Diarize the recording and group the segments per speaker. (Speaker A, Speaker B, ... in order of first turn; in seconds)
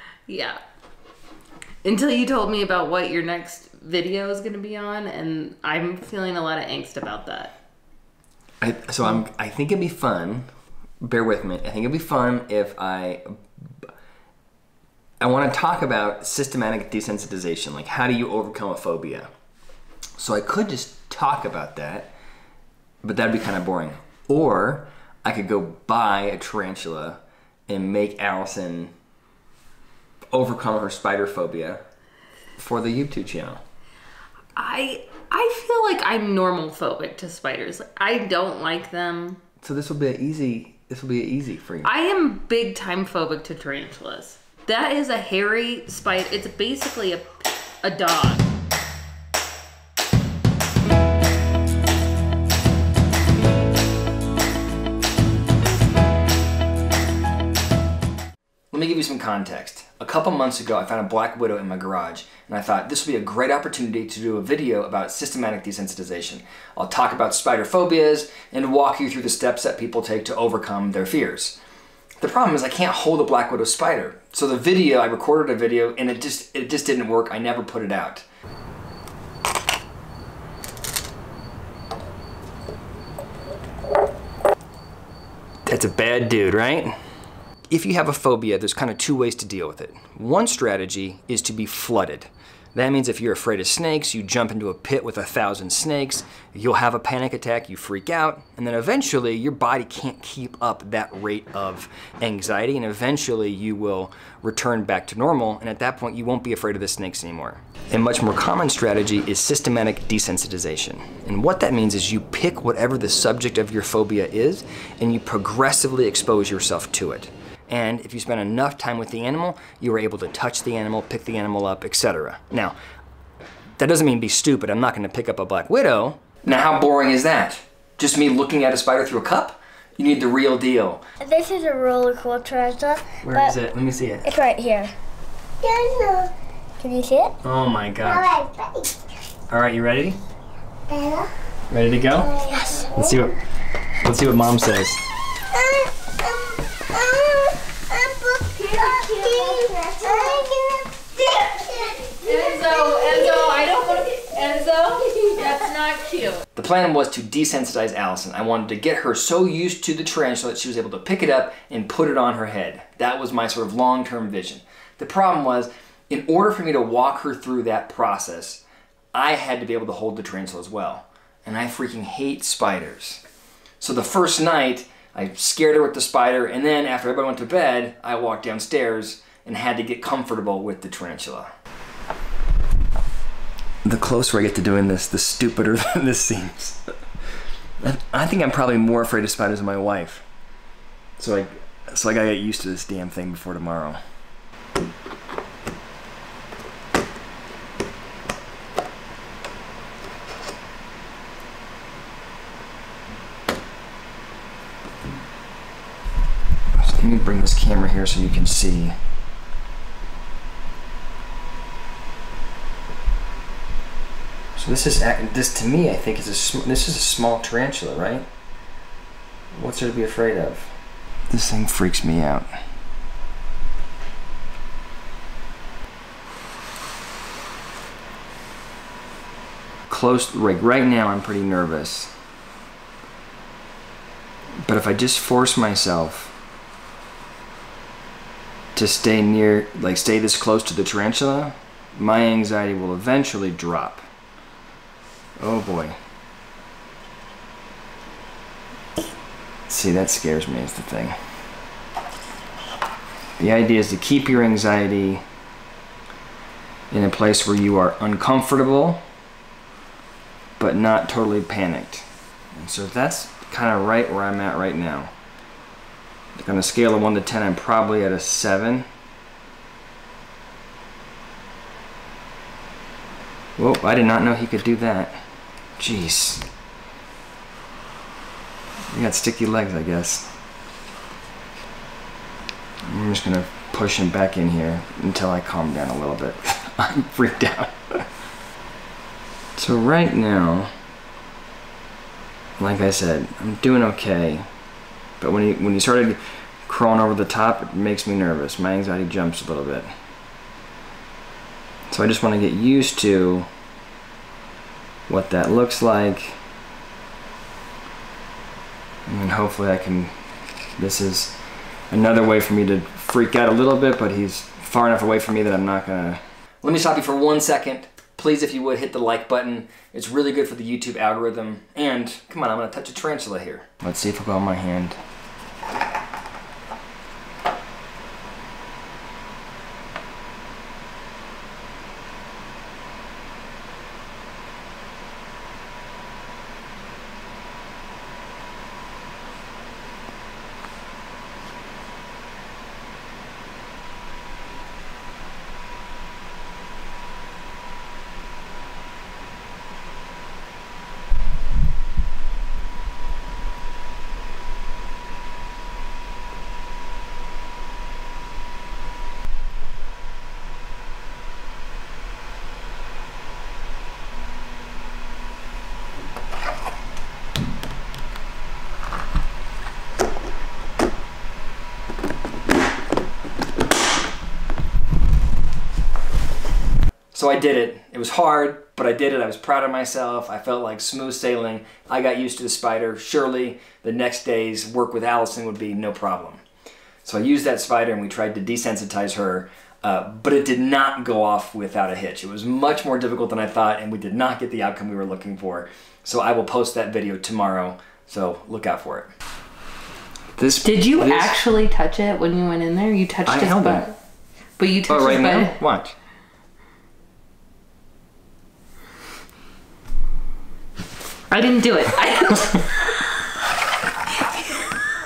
Speaker A: 0.3-0.6, 1.8-7.5, 34.6-39.4, 41.8-48.5, 148.6-150.3, 151.2-156.4, 400.6-403.9, 404.6-405.6, 411.3-413.1
Speaker B: 8.6-10.5, 11.0-13.8, 15.2-19.3, 20.2-22.1, 23.0-28.9, 30.3-31.8, 32.6-33.6, 39.6-41.9, 58.7-71.6, 72.2-78.2, 85.7-87.0, 87.7-122.8, 123.8-131.0, 133.2-134.4, 137.4-138.3, 139.5-140.2, 141.7-142.4, 142.9-143.4, 144.0-145.0, 156.6-168.6, 169.1-173.2, 173.8-181.5, 183.8-186.8, 187.8-190.3, 191.2-194.0, 206.8-209.0, 214.6-218.3, 219.5-220.7, 221.3-222.5, 229.9-232.1, 234.7-236.3, 238.8-244.0, 245.4-246.0, 249.7-251.2, 253.4-255.2, 256.9-259.0, 260.6-265.1, 266.4-268.9, 273.6-275.2, 275.8-276.5, 278.9-280.3, 282.9-288.0, 289.6-290.7, 292.6-294.5, 295.2-299.9, 301.9-303.5, 305.1-306.4, 309.1-310.1, 310.8-311.4, 311.9-325.0, 377.1-386.4, 387.0-399.1, 400.4-401.4, 403.3-403.9, 404.9-406.0
Speaker C: 131.2-133.5, 134.2-134.9, 135.6-137.3, 138.1-138.9, 140.9-141.3, 142.3-143.1, 145.6-151.0, 151.6-152.1